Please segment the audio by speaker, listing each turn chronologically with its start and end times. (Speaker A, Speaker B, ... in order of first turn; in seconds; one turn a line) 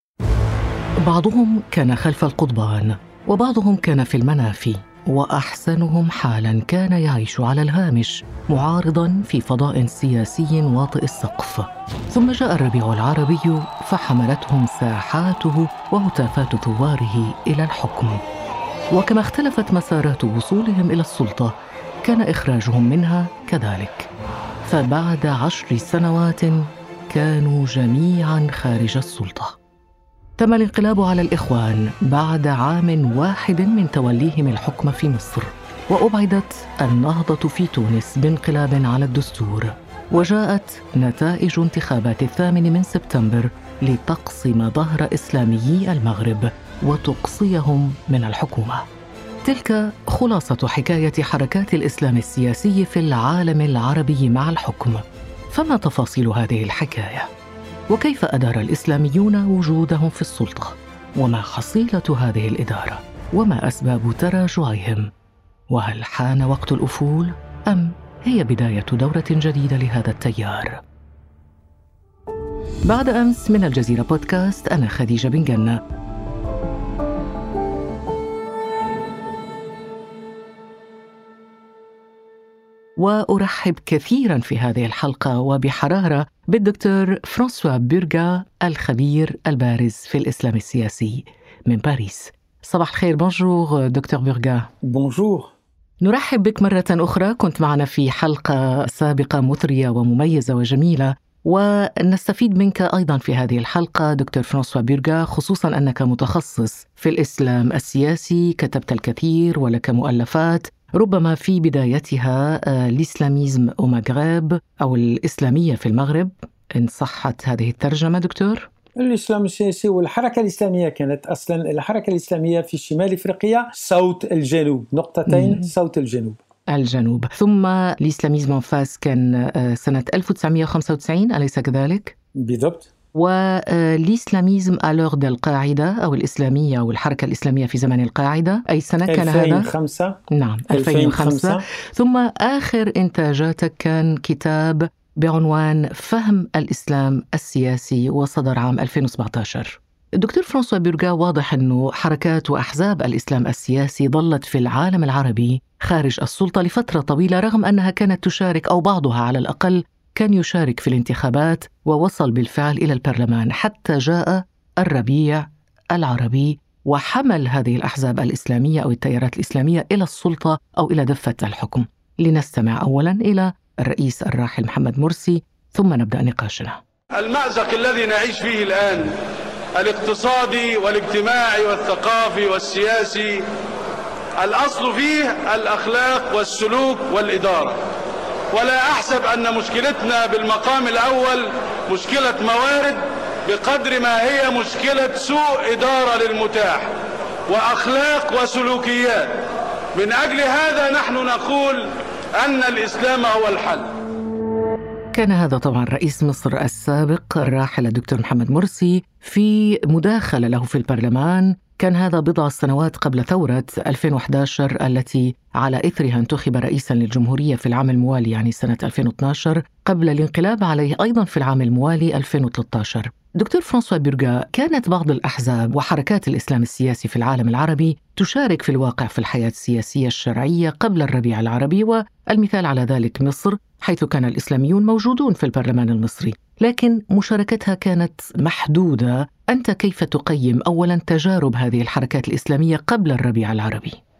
Speaker A: 1.0-18.2
Speaker A: 18.9-24.1
Speaker A: 24.6-29.6
Speaker A: 30.4-48.8
Speaker A: 49.4-57.3
Speaker A: 57.9-65.1
Speaker A: 65.7-70.8
Speaker A: 72.8-75.8
Speaker A: 83.0-94.7
Speaker B: 94.8-95.5
Speaker A: 96.0-118.7
Speaker B: 119.0-126.4
Speaker A: 125.3-125.7
Speaker A: 126.7-132.2
Speaker B: 132.3-132.9
Speaker A: 133.1-139.7
Speaker B: 139.1-140.2
Speaker A: 140.3-176.8
Speaker B: 140.7-141.6
Speaker C: 177.1-179.2
Speaker C: 179.7-183.4
Speaker C: 184.4-187.8
Speaker C: 188.5-196.9
Speaker C: 197.5-203.9
Speaker A: 205.1-244.0